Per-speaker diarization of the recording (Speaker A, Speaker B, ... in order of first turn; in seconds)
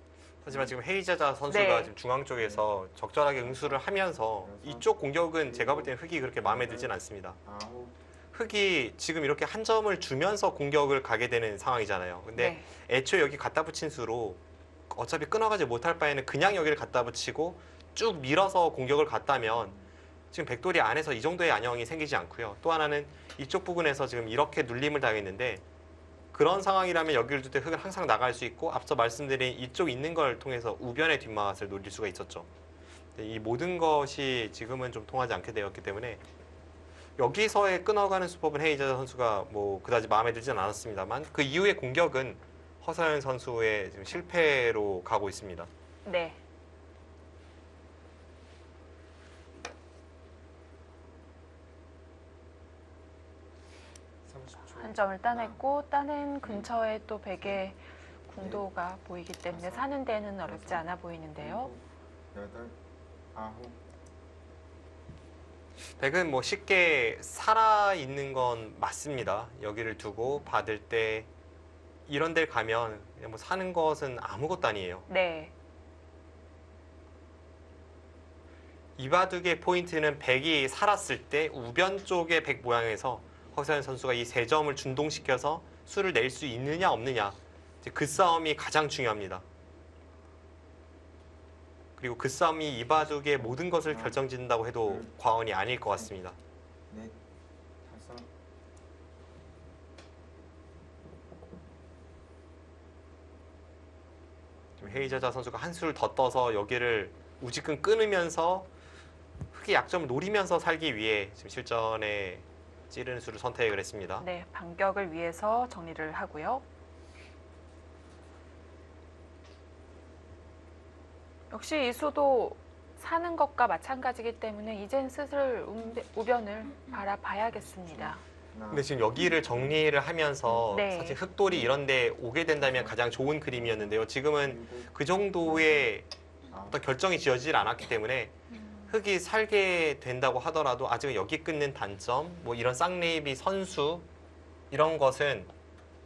Speaker A: 0.4-7.4, 8.3-14.4, 14.9-19.8, 20.3-25.6, 26.3-32.5, 33.2-36.2, 37.2-45.7, 66.0-71.3, 72.1-75.1, 79.0-89.4, 92.0-96.4, 104.8-108.7, 109.5-114.3, 128.7-136.1, 136.7-138.3, 138.9-144.1, 144.7-145.5
Speaker B: 1.5-1.9, 12.4-12.7, 46.0-46.4, 54.6-61.7, 75.1-75.5, 114.2-116.6, 121.5-128.2, 130.7-131.2
Speaker C: 2.4-2.6, 3.5-3.8, 4.4-4.9, 5.5-8.0, 54.2-55.6, 58.4-58.7, 59.5-59.9, 60.5-62.8, 63.3-63.8, 93.1-94.2, 94.8-95.1, 96.9-97.2, 97.8-98.3, 128.5-129.8, 132.6-133.8, 134.4-135.9, 136.5-136.8